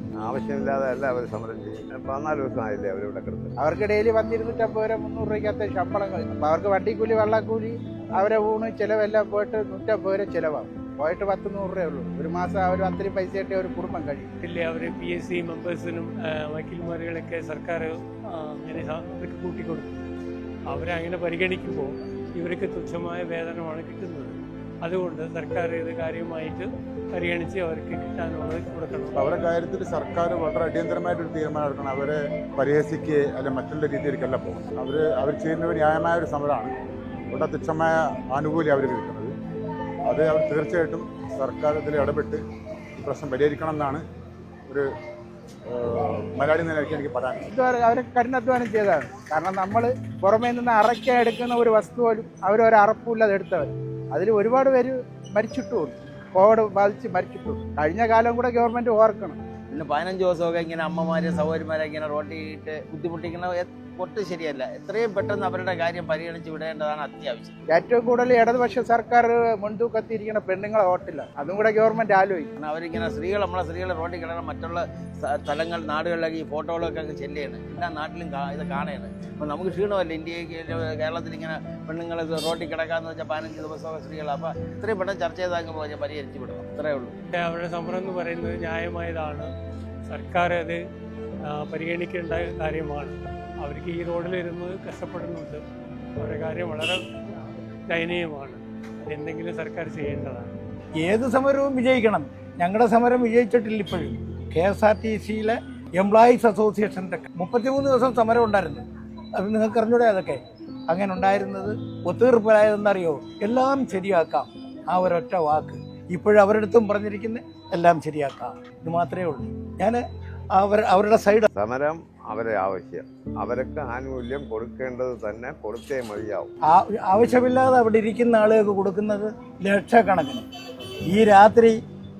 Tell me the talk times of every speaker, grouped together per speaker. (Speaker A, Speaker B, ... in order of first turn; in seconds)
Speaker A: 0.2-3.5, 121.6-126.5
Speaker B: 3.6-14.3, 47.5-59.4, 67.7-72.5
Speaker C: 14.4-20.1, 20.7-29.3, 87.4-89.5, 90.1-90.8, 91.5-95.6, 96.2-97.0, 97.9-100.5
Speaker D: 29.2-36.7, 37.3-39.3, 40.1-42.4, 43.0-44.0, 45.7-47.5
Speaker E: 59.7-67.6, 72.6-87.2
Speaker F: 101.0-108.8, 109.4-121.5, 126.7-130.5, 131.1-131.8